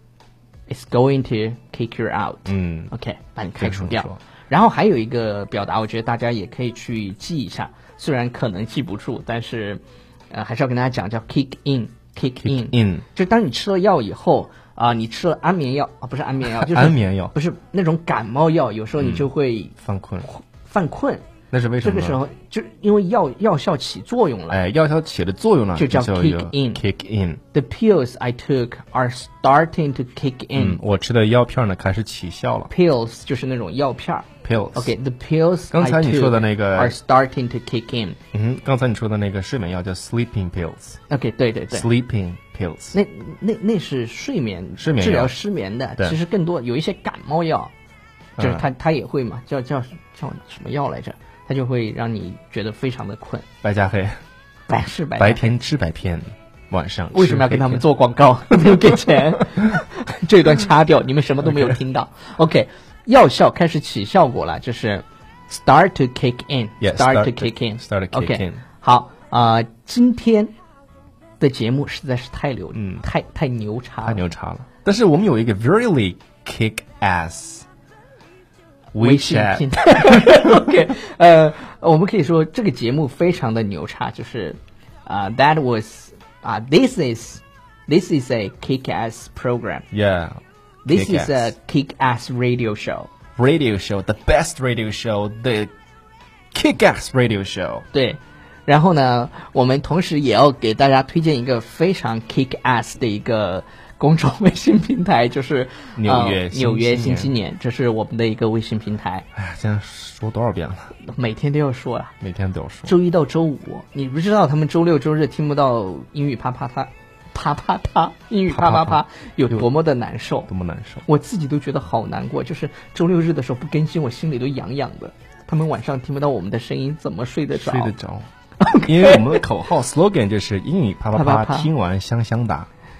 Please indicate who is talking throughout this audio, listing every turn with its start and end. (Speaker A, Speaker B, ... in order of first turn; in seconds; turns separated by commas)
Speaker A: 0.7-21.2, Speaker B: 2.5-2.9, Speaker B: 3.6-4.2, Speaker B: 12.4-13.0, Speaker B: 16.6-17.3, Speaker B: 19.0-19.3, Speaker B: 19.8-20.3, Speaker B: 21.5-22.2, Speaker A: 21.8-24.6, Speaker B: 24.5-27.4, Speaker A: 25.8-26.8, Speaker A: 27.5-30.8, Speaker B: 30.5-32.7, Speaker A: 32.7-38.2, Speaker B: 34.4-34.9, Speaker B: 35.7-37.0, Speaker B: 38.3-41.0, Speaker A: 41.1-41.9, Speaker B: 41.7-43.0, Speaker A: 42.9-47.7, Speaker B: 44.8-45.3, Speaker B: 48.4-48.6, Speaker A: 48.4-53.5, Speaker B: 53.6-54.2, Speaker A: 54.7-55.6, Speaker B: 55.2-57.8, Speaker A: 57.1-70.5, Speaker B: 61.4-61.7, Speaker B: 66.8-68.6, Speaker A: 71.4-74.2, Speaker B: 72.7-73.0, Speaker B: 74.0-77.6, Speaker B: 78.9-80.6, Speaker A: 79.0-89.9, Speaker B: 89.9-91.5, Speaker A: 90.8-93.1, Speaker B: 93.3-95.7, Speaker B: 96.5-97.8, Speaker A: 97.9-109.2, Speaker B: 106.0-107.3, Speaker B: 109.3-110.9, Speaker A: 111.0-112.1, Speaker B: 112.2-112.9, Speaker A: 112.8-120.5, Speaker B: 118.5-119.7, Speaker B: 120.5-121.0, Speaker A: 121.0-127.9, Speaker B: 127.5-128.3, Speaker A: 128.6-129.4, Speaker B: 128.8-132.7, Speaker A: 131.1-131.7